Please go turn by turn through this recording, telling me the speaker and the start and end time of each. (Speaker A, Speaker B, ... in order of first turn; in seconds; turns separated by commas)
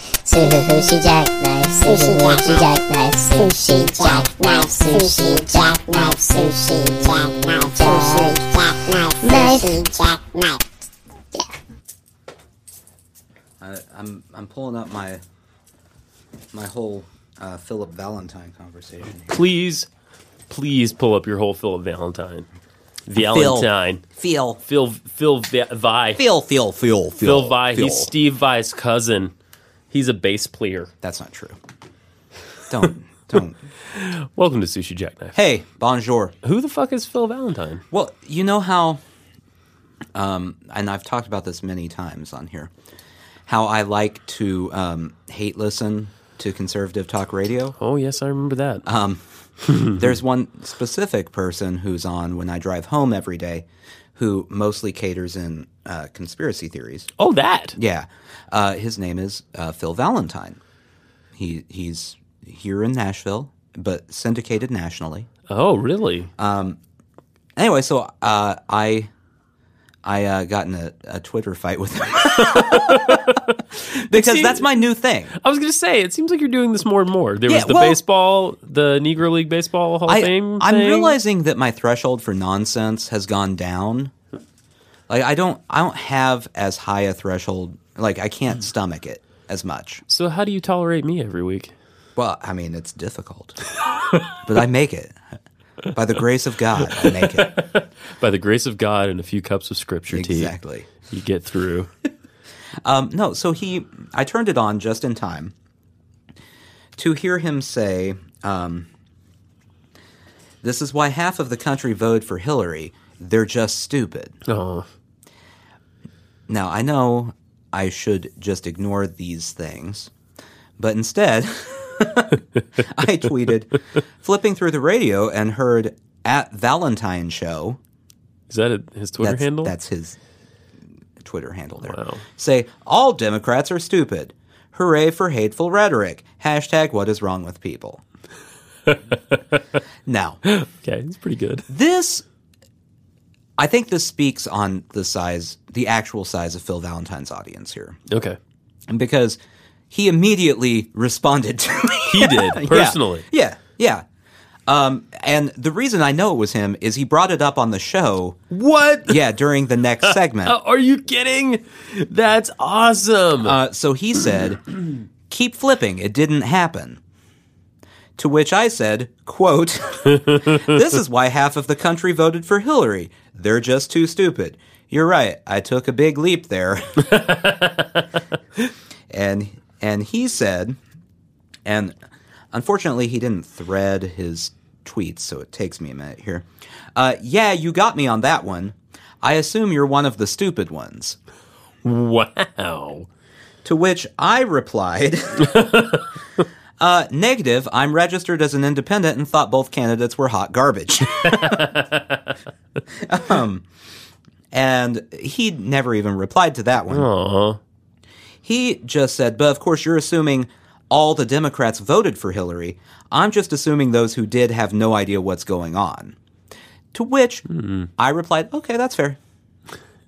Speaker A: 0.2-10.6, Speaker B: 13.6-15.2, Speaker B: 16.5-19.4, Speaker C: 19.2-19.9, Speaker C: 20.5-22.5, Speaker C: 23.1-24.0, Speaker B: 23.1-24.6, Speaker C: 24.6-26.2, Speaker B: 26.1-28.1, Speaker C: 27.2-29.3, Speaker C: 29.9-30.9, Speaker B: 31.0-31.6, Speaker B: 32.7-33.6, Speaker C: 33.9-35.4, Speaker B: 35.3-36.3, Speaker C: 36.4-37.8, Speaker B: 37.9-39.0, Speaker B: 40.1-42.7, Speaker B: 43.5-47.8, Speaker C: 47.8-48.9, Speaker B: 48.8-49.2, Speaker C: 49.7-50.0, Speaker B: 49.8-57.1, Speaker C: 57.2-57.8, Speaker B: 57.8-60.6, Speaker B: 61.3-65.3, Speaker C: 65.5-66.3, Speaker B: 66.4-66.8, Speaker B: 67.5-69.1, Speaker B: 70.0-73.3, Speaker C: 72.3-74.8, Speaker B: 74.0-75.3, Speaker C: 75.3-81.2, Speaker B: 77.5-78.0, Speaker B: 80.1-84.1, Speaker B: 85.1-90.0, Speaker C: 90.1-91.7, Speaker B: 92.2-93.6, Speaker B: 94.4-95.2, Speaker B: 95.9-97.6, Speaker C: 96.9-101.9, Speaker B: 100.1-100.9, Speaker B: 102.8-105.5, Speaker B: 107.0-108.9, Speaker B: 110.6-114.4, Speaker C: 114.5-114.9, Speaker B: 116.5-120.1, Speaker B: 120.8-127.8, Speaker C: 128.5-129.7, Speaker B: 129.2-130.2, Speaker B: 131.2-138.0, Speaker C: 131.8-132.2, Speaker C: 138.9-139.6, Speaker B: 140.1-140.4, Speaker C: 140.4-141.7, Speaker B: 141.7-142.2, Speaker B: 143.6-148.0, Speaker C: 148.1-148.4, Speaker B: 148.9-149.4, Speaker B: 149.9-154.0, Speaker C: 152.1-153.3, Speaker B: 154.7-160.6, Speaker C: 158.5-159.2, Speaker C: 160.4-163.6, Speaker B: 163.4-164.6, Speaker B: 165.3-167.0, Speaker B: 168.2-177.3, Speaker C: 170.2-170.6, Speaker C: 177.1-178.0, Speaker B: 179.1-180.8, Speaker B: 181.6-181.9, Speaker B: 182.5-191.2, Speaker C: 191.8-193.1, Speaker B: 193.6-195.7, Speaker C: 195.4-196.1, Speaker B: 196.8-201.7, Speaker C: 201.2-202.2, Speaker B: 202.9-203.7, Speaker B: 204.5-207.1, Speaker C: 206.9-207.6, Speaker B: 208.4-216.2, Speaker B: 216.9-217.4, Speaker C: 217.5-217.9, Speaker B: 218.0-219.2